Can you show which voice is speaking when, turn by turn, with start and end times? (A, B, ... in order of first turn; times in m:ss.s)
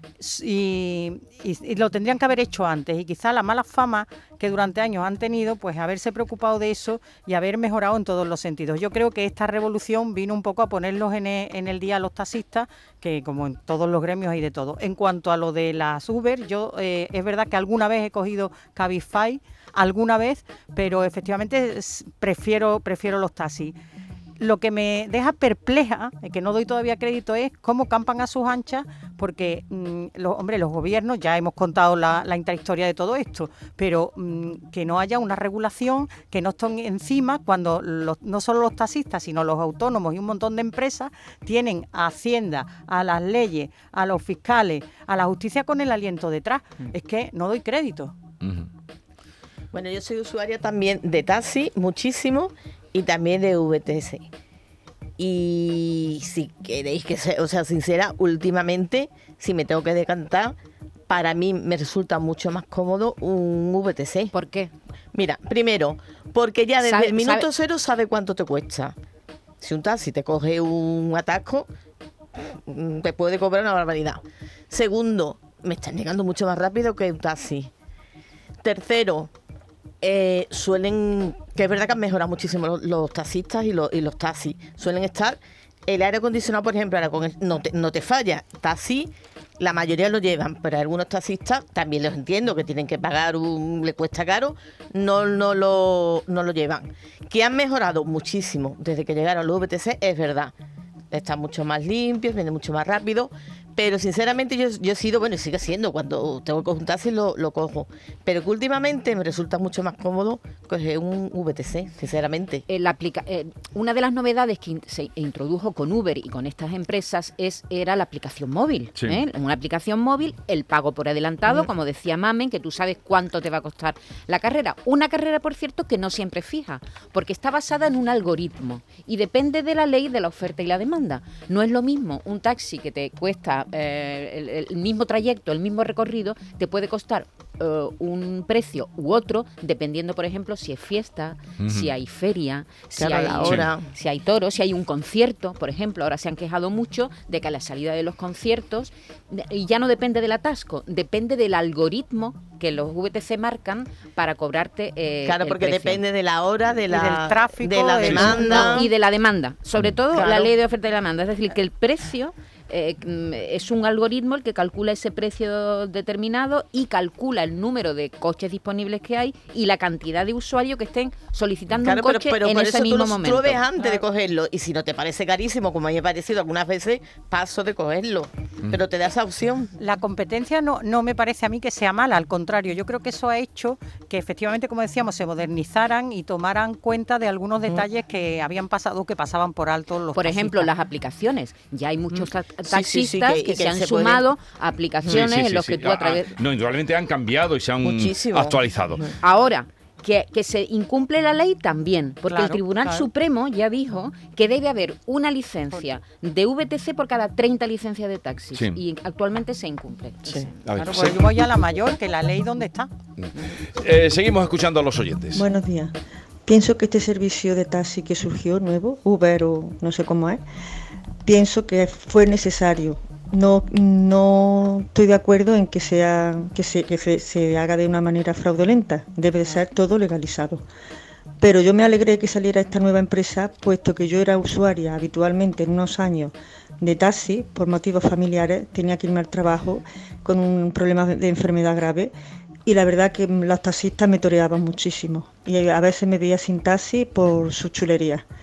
0:00.2-0:23.8 A
0:24.4-0:48.1 A
0:48.4-0:48.7 B
0:49.7-0:54.2 C
0:55.2-1:00.6 C
1:01.1-1:04.3 C
1:04.3-1:04.7 D
1:05.1-1:09.0 C
1:06.8-1:07.4 D
1:09.6-1:11.7 C
1:12.4-1:17.7 C
1:18.6-1:19.3 C
1:20.0-1:40.5 C
1:41.1-1:52.6 C
1:52.7-2:36.0 D
1:59.0-1:59.2 B
2:21.6-2:21.9 B
2:22.9-2:23.9 C
2:35.2-2:38.9 C
2:36.9-2:38.7 A
2:38.1-2:53.6 D
2:40.1-2:40.5 C
2:51.8-2:59.7 C
2:59.8-3:10.7 A
3:10.1-3:16.3 D
3:12.6-3:14.2 C
3:15.1-3:19.0 B
3:17.8-3:19.2 C
3:19.2-3:30.7 D
3:22.3-3:23.1 A
3:28.5-3:28.8 B
3:30.6-3:31.3 B
3:30.8-3:32.9 A
3:33.8-3:35.4 B
3:35.3-3:35.9 E
3:36.4-3:40.4 E
3:41.2-3:50.6 E
3:51.4-4:02.1 E
4:02.6-4:08.2 E